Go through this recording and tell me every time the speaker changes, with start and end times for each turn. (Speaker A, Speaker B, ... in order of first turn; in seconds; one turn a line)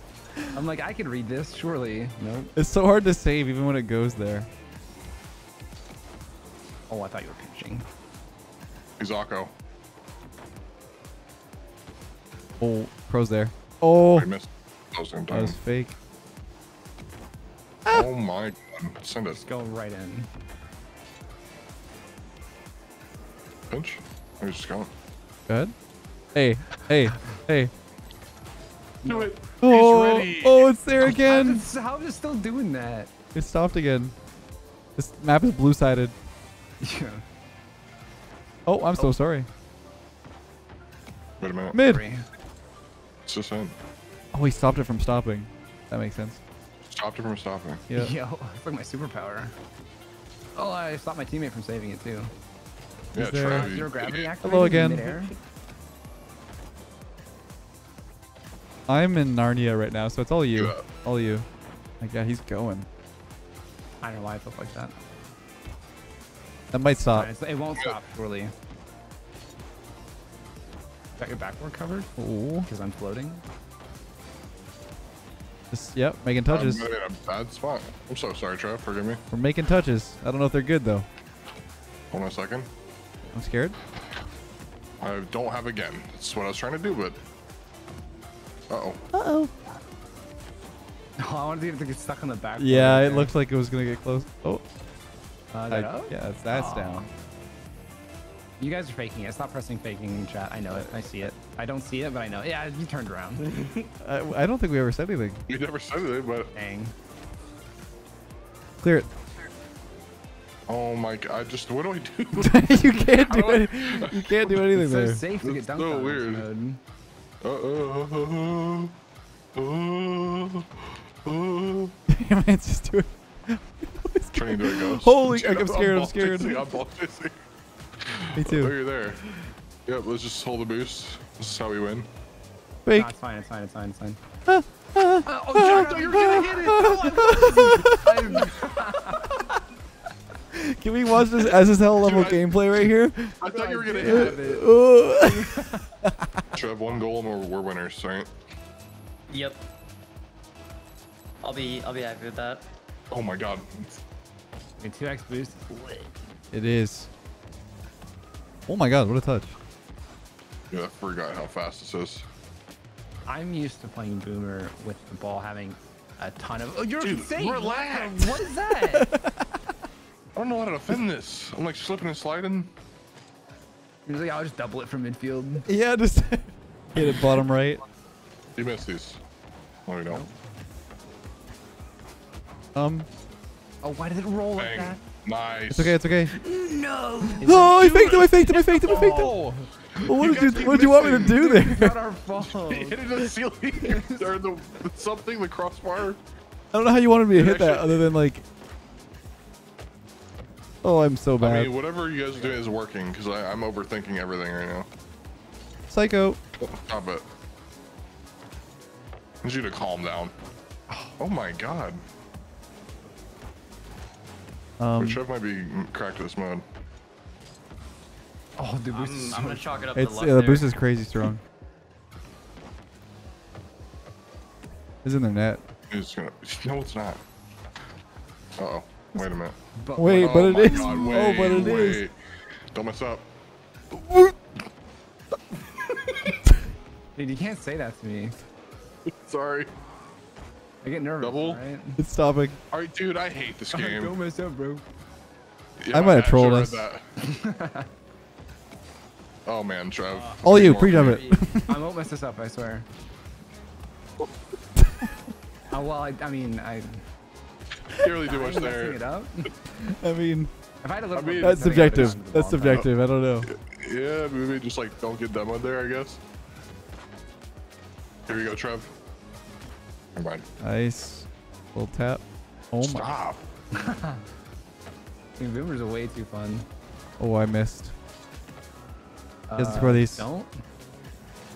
Speaker A: 0.5-2.5
Speaker B: 2.6-4.5
Speaker A: 6.9-7.9
Speaker C: 9.0-9.5
Speaker B: 12.6-14.3
Speaker C: 14.1-15.6
Speaker B: 15.3-15.9
Speaker C: 17.9-19.4
Speaker A: 19.3-20.3
Speaker C: 23.7-24.9
Speaker B: 25.5-25.7
Speaker B: 26.4-27.7
Speaker A: 29.0-29.3
Speaker C: 29.1-30.8
Speaker B: 29.6-31.7
Speaker A: 31.0-33.1
Speaker B: 33.3-34.1
Speaker B: 35.0-36.1
Speaker A: 36.8-37.2
Speaker B: 38.7-39.5
Speaker C: 41.4-41.8
Speaker B: 41.7-42.0
Speaker A: 41.8-42.2
Speaker C: 43.3-43.8
Speaker B: 44.3-46.4
Speaker C: 46.8-47.8
Speaker A: 47.9-49.5
Speaker A: 50.5-52.3
Speaker C: 53.1-54.3
Speaker B: 53.1-53.8
Speaker A: 53.5-55.4
Speaker B: 54.4-55.2
Speaker B: 58.9-61.5
Speaker C: 60.5-60.8
Speaker B: 62.0-62.9
Speaker A: 64.0-65.0
Speaker B: 66.7-67.3
Speaker A: 67.1-68.5
Speaker A: 71.2-72.1
Speaker B: 72.2-72.7
Speaker A: 72.7-73.4
Speaker B: 75.7-76.9
Speaker C: 76.5-79.2
Speaker B: 79.3-81.1
Speaker C: 82.1-82.7
Speaker B: 83.3-83.8
Speaker C: 85.0-87.2
Speaker C: 88.7-89.0
Speaker B: 89.1-89.5
Speaker A: 91.2-93.3
Speaker B: 92.6-94.6
Speaker A: 95.5-97.1
Speaker B: 95.7-97.1
Speaker A: 98.6-103.6
Speaker D: 103.5-103.9
Speaker B: 104.0-105.4
Speaker C: 105.5-106.5
Speaker A: 106.5-107.0
Speaker B: 108.8-109.1
Speaker C: 110.7-112.6
Speaker B: 112.4-115.2
Speaker C: 113.2-114.7
Speaker A: 114.7-116.8
Speaker C: 115.4-116.5
Speaker C: 117.4-119.0
Speaker C: 119.5-122.0
Speaker B: 122.1-126.5
Speaker C: 124.3-127.4
Speaker C: 128.0-129.2
Speaker B: 128.3-128.8
Speaker C: 129.9-132.1
Speaker B: 132.8-133.1
Speaker A: 132.9-134.2
Speaker B: 134.5-138.5
Speaker A: 135.3-139.4
Speaker C: 135.5-136.7
Speaker B: 140.5-143.4
Speaker C: 141.9-142.6
Speaker C: 143.4-144.4
Speaker A: 143.4-145.9
Speaker B: 144.0-146.3
Speaker C: 146.5-148.3
Speaker D: 149.3-149.6
Speaker D: 151.4-152.7
Speaker C: 153.1-154.0
Speaker A: 154.8-156.1
Speaker B: 156.5-157.1
Speaker B: 158.7-159.5
Speaker C: 160.7-162.2
Speaker A: 163.3-169.1
Speaker C: 167.0-168.4
Speaker B: 168.9-169.5
Speaker C: 170.3-172.7
Speaker A: 174.1-175.7
Speaker B: 175.7-177.8
Speaker C: 178.6-179.2
Speaker C: 179.9-180.2
Speaker B: 182.8-183.1
Speaker A: 183.8-185.0
Speaker C: 184.5-186.0
Speaker B: 185.7-186.3
Speaker D: 186.4-188.2
Speaker A: 187.2-189.7
Speaker B: 187.4-189.4
Speaker C: 188.9-191.4
Speaker B: 190.1-192.0
Speaker A: 190.3-193.1
Speaker C: 192.4-196.2
Speaker A: 193.8-194.3
Speaker B: 196.7-198.4
Speaker C: 197.3-198.1
Speaker B: 200.8-201.7
Speaker C: 201.4-204.9
Speaker A: 202.3-202.7
Speaker B: 205.9-206.4
Speaker C: 206.6-207.2
Speaker C: 209.4-210.3
Speaker A: 210.9-211.2
Speaker C: 211.2-212.0
Speaker B: 214.8-215.2
Speaker C: 215.0-216.7
Speaker A: 218.6-219.9
Speaker D: 218.9-220.8
Speaker B: 219.9-221.4
Speaker B: 225.0-225.6
Speaker C: 225.9-227.2
Speaker C: 228.6-232.2
Speaker A: 229.8-231.4
Speaker B: 230.0-232.0
Speaker C: 232.7-233.2
Speaker B: 233.9-234.4
Speaker A: 237.2-238.4
Speaker C: 239.1-239.7
Speaker A: 240.8-242.0
Speaker C: 241.2-241.6
Speaker B: 242.0-242.6
Speaker C: 242.7-244.2
Speaker A: 243.7-244.8
Speaker C: 245.8-247.1
Speaker B: 245.9-246.9
Speaker A: 247.2-247.9
Speaker C: 249.5-251.2
Speaker B: 250.4-251.8
Speaker D: 250.5-251.5
Speaker A: 251.7-252.9
Speaker A: 255.7-257.0
Speaker C: 257.9-259.5
Speaker A: 258.2-259.5
Speaker B: 259.8-260.5
Speaker A: 260.8-262.9
Speaker C: 261.1-261.7
Speaker B: 261.4-263.5
Speaker C: 263.5-266.2
Speaker C: 268.3-268.9
Speaker C: 270.1-270.4
Speaker B: 270.6-273.2
Speaker C: 272.8-273.4
Speaker A: 273.7-274.2
Speaker A: 275.4-276.7
Speaker B: 277.2-277.9
Speaker A: 279.5-280.6
Speaker B: 279.6-280.3